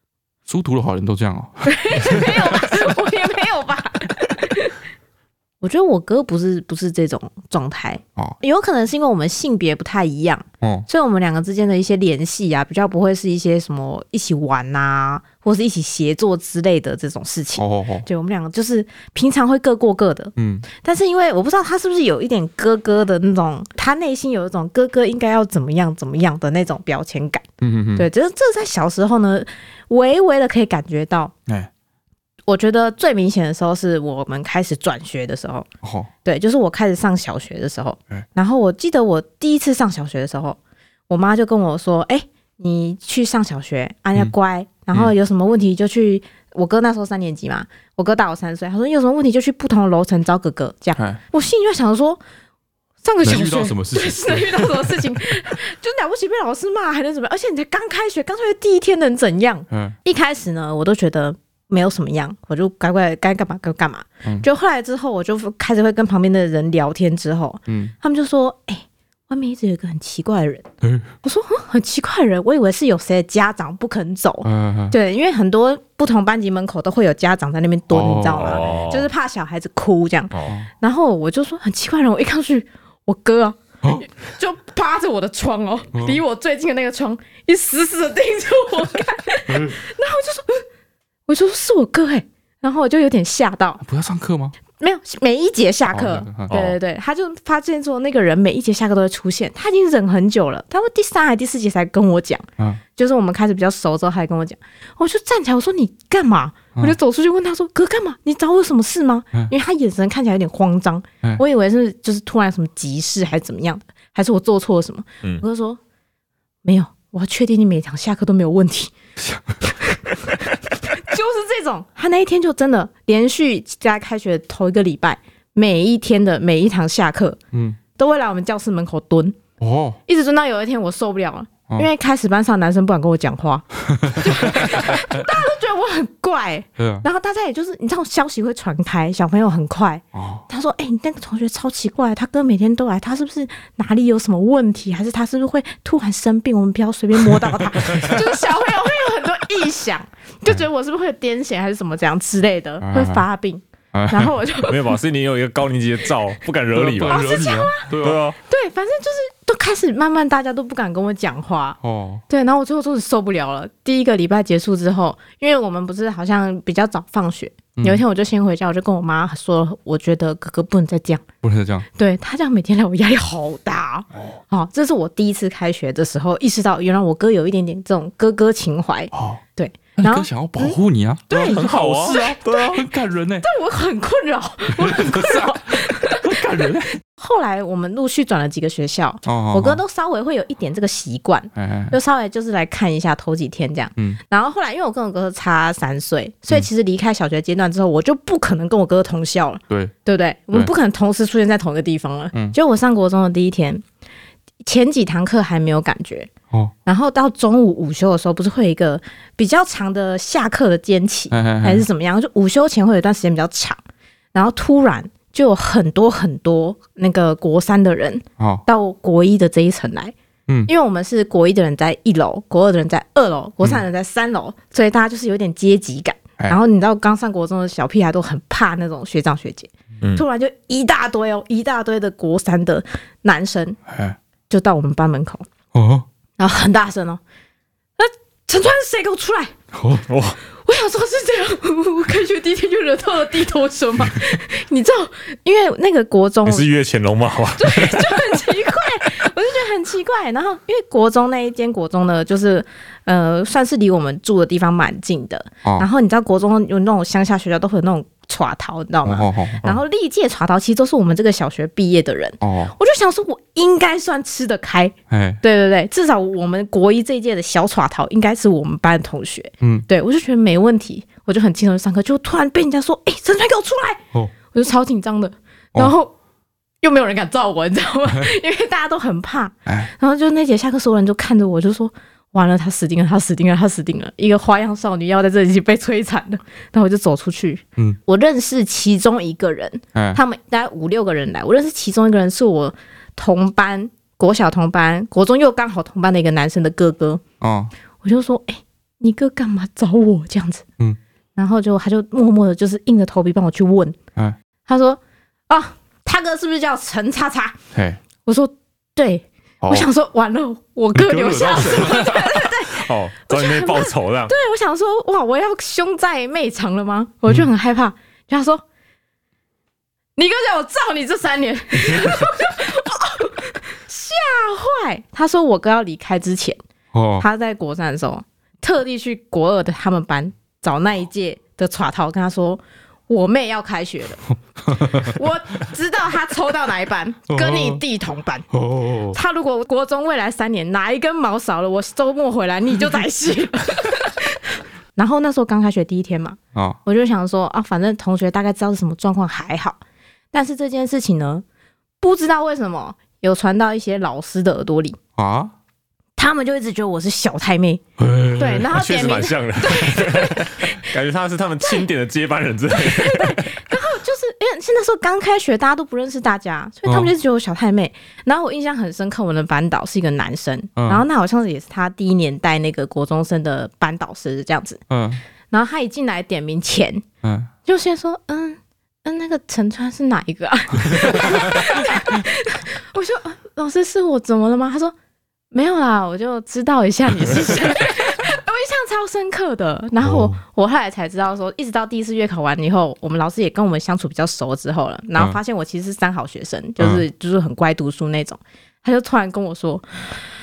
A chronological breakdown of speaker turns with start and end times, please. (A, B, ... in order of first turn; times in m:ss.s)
0:00.4-0:03.0 A
0:01.6-0:04.8 B
0:05.6-0:27.4 B
0:10.6-0:10.9 A
0:17.6-0:18.1 A
0:20.4-0:20.7 A
0:27.6-0:28.1 A
0:28.0-0:31.3 B
0:32.5-0:35.7 B
0:35.8-0:36.1 A
0:36.2-0:40.6 B
0:41.1-0:52.2 B
0:51.0-0:51.2 A
0:53.0-1:10.7 B
0:53.2-0:55.2 A
0:59.7-1:00.0 A
1:07.7-1:07.9 A
1:10.8-1:11.1 A
1:11.2-1:30.6 B
1:14.4-1:15.0 A
1:17.9-1:18.6 A
1:18.3-1:19.1 C
1:20.3-1:20.6 C
1:23.8-1:24.1 A
1:25.9-1:26.2 A
1:29.5-1:29.8 A
1:31.3-1:33.8 B
1:33.8-1:34.6 A
1:34.8-1:55.8 B
1:35.9-1:36.6 A
1:36.5-1:36.8 C
1:56.6-1:58.9 B
1:59.2-1:59.7 A
1:59.6-2:07.4 B
2:07.5-2:07.8 A
2:08.0-2:09.4 B
2:09.6-2:10.0 A
2:10.1-2:35.0 B
2:13.8-2:15.3 A
2:16.8-2:17.1 A
2:20.1-2:20.4 A
2:27.3-2:28.2 A
2:32.8-2:33.2 A
2:33.9-2:34.4 A
2:34.6-2:37.2 C
2:36.7-2:38.2 A
2:37.0-2:37.9 B
2:38.0-2:38.4 C
2:38.4-2:51.2 B
2:41.8-2:42.2 A
2:47.8-2:48.0 A
2:51.4-2:51.8 A
2:51.9-3:00.8 B
2:54.1-2:54.4 A
2:59.1-2:59.4 A
3:00.0-3:03.4 A
3:01.3-3:02.8 B
3:01.4-3:02.8 C
3:03.4-3:06.4 B
3:04.8-3:07.0 A
3:07.2-3:23.8 B
3:09.2-3:09.8 A
3:11.5-3:12.0 A
3:24.6-3:26.3 B
3:26.8-3:33.8 B
3:31.3-3:31.8 A
3:34.3-3:40.1 B
3:38.4-3:38.6 A
3:40.7-3:53.8 B
3:53.9-3:54.2 A
3:54.5-3:55.4 B
3:55.7-3:56.0 A
3:56.4-3:57.2 B
3:58.0-3:59.5 B
3:59.7-4:00.0 A
4:00.1-4:00.4 C
4:00.5-4:06.7 B
4:06.4-4:08.2 C
4:07.6-4:36.1 B
4:19.0-4:19.8 A
4:22.4-4:22.7 A
4:25.1-4:25.4 A
4:29.6-4:29.9 A
4:36.8-4:57.2 B
4:39.6-4:39.9 A
4:49.9-4:50.2 A
4:57.4-4:57.7 A
4:58.0-5:00.6 B
5:01.4-5:04.0 B
5:04.7-5:07.6 B
5:07.7-5:08.0 A
5:08.2-5:18.6 B
5:09.6-5:09.9 A
5:10.9-5:12.4 A
5:11.9-5:14.3 C
5:20.2-5:26.6 B
5:26.9-5:27.2 A
5:27.2-5:34.2 B
5:34.6-5:35.2 A
5:34.8-5:38.5 B
5:37.3-5:37.8 A
5:38.5-5:39.2 A
5:39.1-5:49.8 B
5:46.5-5:46.8 A
5:50.3-5:51.4 B
5:52.0-5:55.0 B
5:55.2-5:55.5 A
5:56.2-5:57.8 B
5:58.0-5:58.7 A
5:58.3-6:00.9 B
5:58.4-6:03.6 C
6:02.8-6:14.8 B
6:06.8-6:07.1 A
6:10.8-6:11.0 A
6:14.9-6:15.2 A
6:15.5-6:17.0 B
6:17.2-6:17.5 A
6:17.6-6:24.9 B
6:20.9-6:22.2 A
6:25.5-6:40.2 B
6:30.0-6:30.4 A
6:36.8-6:37.0 A